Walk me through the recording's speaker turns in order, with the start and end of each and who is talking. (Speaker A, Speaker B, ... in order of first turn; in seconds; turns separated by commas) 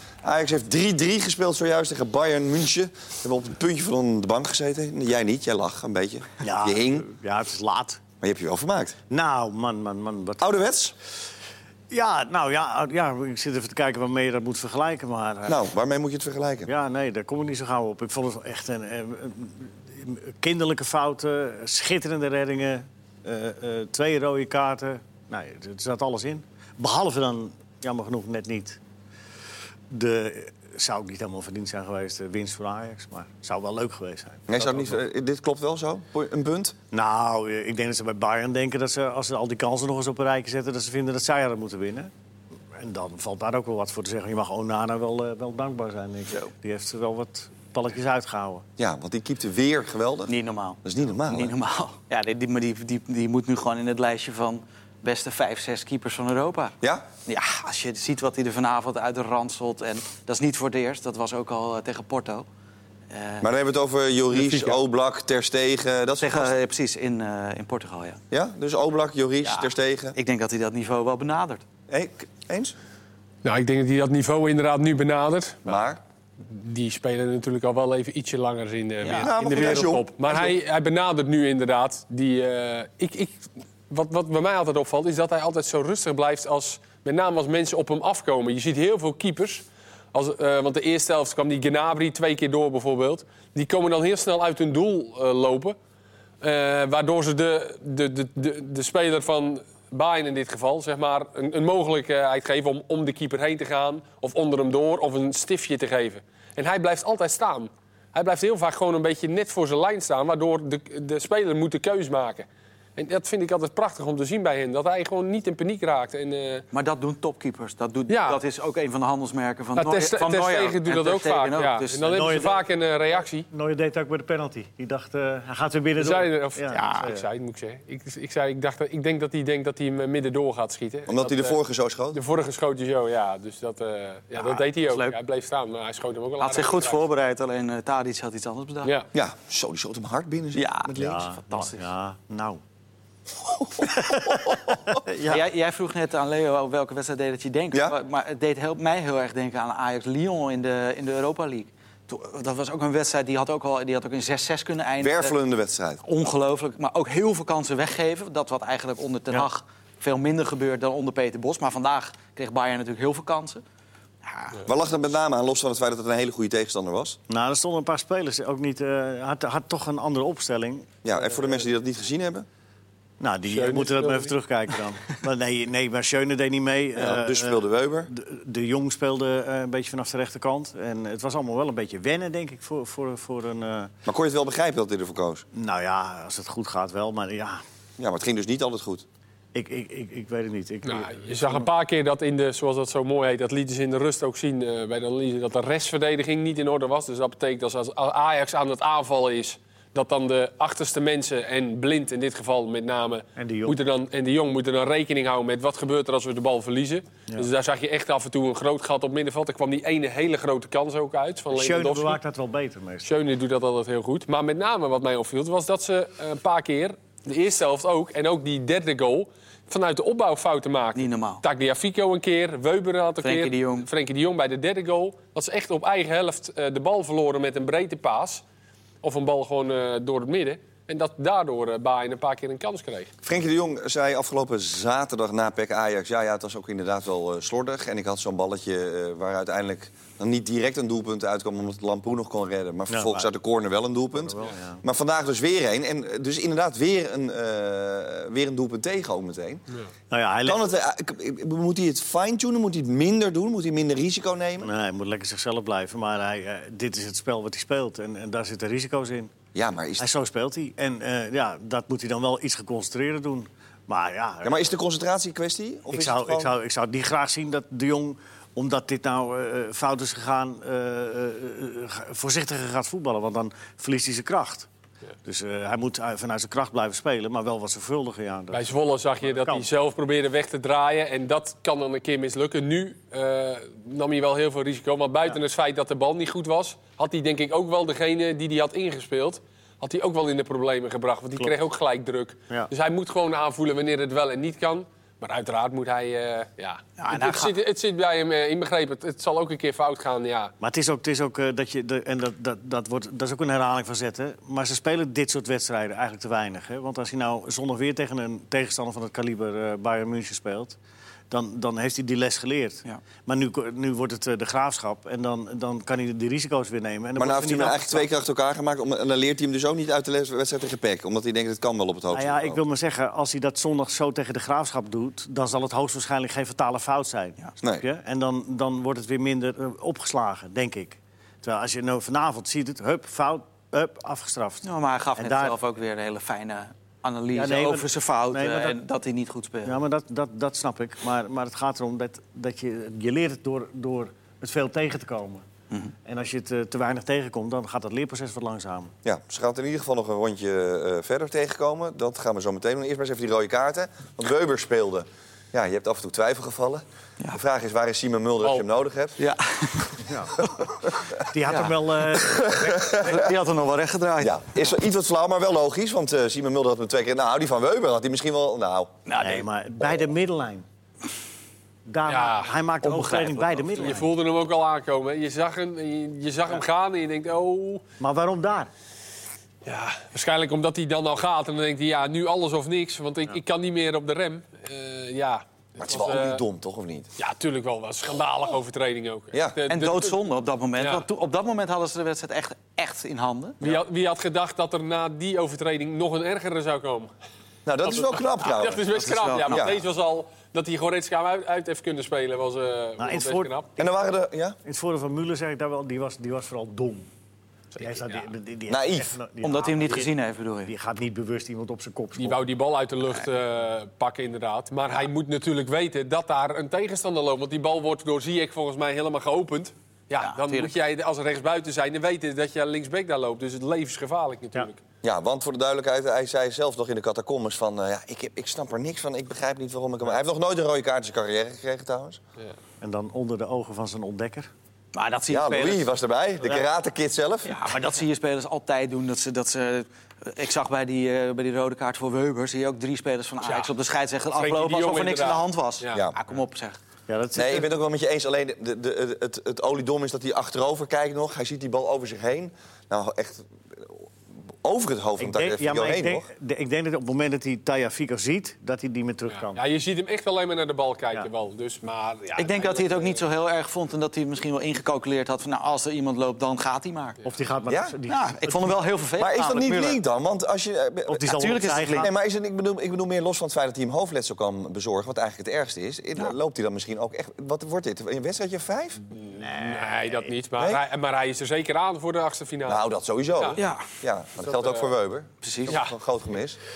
Speaker A: 0.2-7.1, Speaker B: 6.4-8.0, Speaker A: 8.2-9.0, Speaker B: 9.1-10.4, Speaker A: 10.4-10.9, Speaker B: 11.9-15.6, Speaker A: 15.5-16.7, Speaker B: 16.6-28.8, Speaker B: 29.9-35.0, Speaker A: 34.5-36.8, Speaker B: 36.9-42.1, Speaker B: 42.7-48.6, Speaker A: 48.8-51.5, Speaker C: 50.3-56.7, Speaker C: 57.3-62.5, Speaker C: 63.1-63.5, Speaker A: 63.4-66.5, Speaker D: 64.3-64.8, Speaker C: 66.2-68.2, Speaker A: 68.3-70.2, Speaker C: 69.4-71.6, Speaker A: 71.9-72.8, Speaker D: 73.4-75.7, Speaker A: 75.6-76.0, Speaker D: 76.4-95.8, Speaker C: 79.0-79.9, Speaker A: 79.1-80.5, Speaker D: 96.4-112.5, Speaker D: 113.0-116.6, Speaker C: 116.7-122.2, Speaker D: 118.1-118.4, Speaker D: 119.7-123.5, Speaker B: 122.0-127.2, Speaker D: 126.0-131.6, Speaker C: 126.7-127.1, Speaker A: 131.1-132.2, Speaker D: 132.1-137.1, Speaker C: 134.3-135.1, Speaker C: 136.4-138.9, Speaker A: 139.1-141.2, Speaker C: 140.6-141.9, Speaker B: 140.9-142.6, Speaker A: 143.6-144.8, Speaker B: 143.9-145.4, Speaker C: 145.2-155.3, Speaker A: 147.7-148.0, Speaker A: 155.0-156.0, Speaker C: 156.0-163.6, Speaker C: 164.2-164.6, Speaker A: 164.6-167.2, Speaker B: 167.3-171.7, Speaker A: 171.0-172.5, Speaker B: 173.2-183.9, Speaker D: 173.5-174.3, Speaker A: 176.9-178.1, Speaker A: 184.1-185.4, Speaker B: 185.5-187.6, Speaker A: 188.0-189.0, Speaker B: 189.5-191.7, Speaker D: 190.8-212.2, Speaker B: 203.3-203.8, Speaker B: 211.5-213.1, Speaker D: 213.0-228.4, Speaker C: 220.9-221.4, Speaker C: 223.2-223.9, Speaker D: 229.0-233.1, Speaker A: 233.2-249.6, Speaker B: 242.9-243.3, Speaker B: 244.2-244.8, Speaker B: 250.1-250.6, Speaker A: 250.4-254.7, Speaker B: 254.6-259.3, Speaker A: 259.5-260.1, Speaker B: 260.0-264.6, Speaker A: 264.4-266.5, Speaker B: 265.9-274.7, Speaker B: 275.2-279.7, Speaker D: 278.5-300.5, Speaker C: 297.0-297.5, Speaker B: 300.6-310.8, Speaker B: 311.3-318.1, Speaker A: 317.1-322.6, Speaker B: 322.1-334.6, Speaker C: 334.6-339.8, Speaker B: 335.2-335.6, Speaker B: 337.3-338.8, Speaker B: 339.6-345.4, Speaker B: 346.1-348.9, Speaker A: 349.0-359.2, Speaker C: 359.2-360.7, Speaker B: 360.0-360.4, Speaker B: 361.3-362.5, Speaker C: 361.4-361.7, Speaker A: 362.1-363.3, Speaker C: 362.4-364.7, Speaker A: 364.2-368.9, Speaker C: 369.1-369.4, Speaker B: 369.2-370.6, Speaker B: 371.9-374.1, Speaker D: 372.1-372.5, Speaker C: 372.8-374.0, Speaker D: 373.8-377.8, Speaker B: 378.0-378.7, Speaker D: 379.6-386.4, Speaker A: 385.8-387.1, Speaker D: 387.2-390.2, Speaker A: 389.3-389.6, Speaker C: 389.7-393.6, Speaker D: 390.8-391.1, Speaker D: 393.6-397.1, Speaker A: 397.6-398.9, Speaker D: 397.8-403.7, Speaker C: 398.9-399.7, Speaker A: 399.4-399.8, Speaker B: 403.0-403.6, Speaker A: 403.8-404.6, Speaker B: 404.6-407.1, Speaker D: 407.7-408.2, Speaker B: 407.8-410.1, Speaker A: 408.7-409.1, Speaker C: 409.4-410.7, Speaker B: 410.6-412.4, Speaker D: 412.2-424.8, Speaker C: 420.2-420.7, Speaker A: 425.0-432.2, Speaker B: 432.8-434.5, Speaker C: 434.9-435.9, Speaker A: 435.3-437.6, Speaker C: 437.4-446.8, Speaker D: 443.4-443.7, Speaker D: 444.3-446.0, Speaker B: 447.1-447.7, Speaker A: 447.3-454.1, Speaker A: 454.6-456.3, Speaker B: 455.2-459.6, Speaker D: 459.3-463.2, Speaker C: 462.4-467.2, Speaker B: 467.2-468.8, Speaker A: 467.7-467.9, Speaker C: 468.1-470.0, Speaker A: 469.2-479.0, Speaker B: 471.1-472.1, Speaker C: 471.3-472.1, Speaker B: 479.3-480.3, Speaker D: 479.4-482.8, Speaker A: 480.6-480.8, Speaker A: 482.6-486.6, Speaker D: 483.4-483.6, Speaker C: 483.6-483.9, Speaker D: 484.4-484.9, Speaker C: 485.4-485.8, Speaker D: 485.7-485.9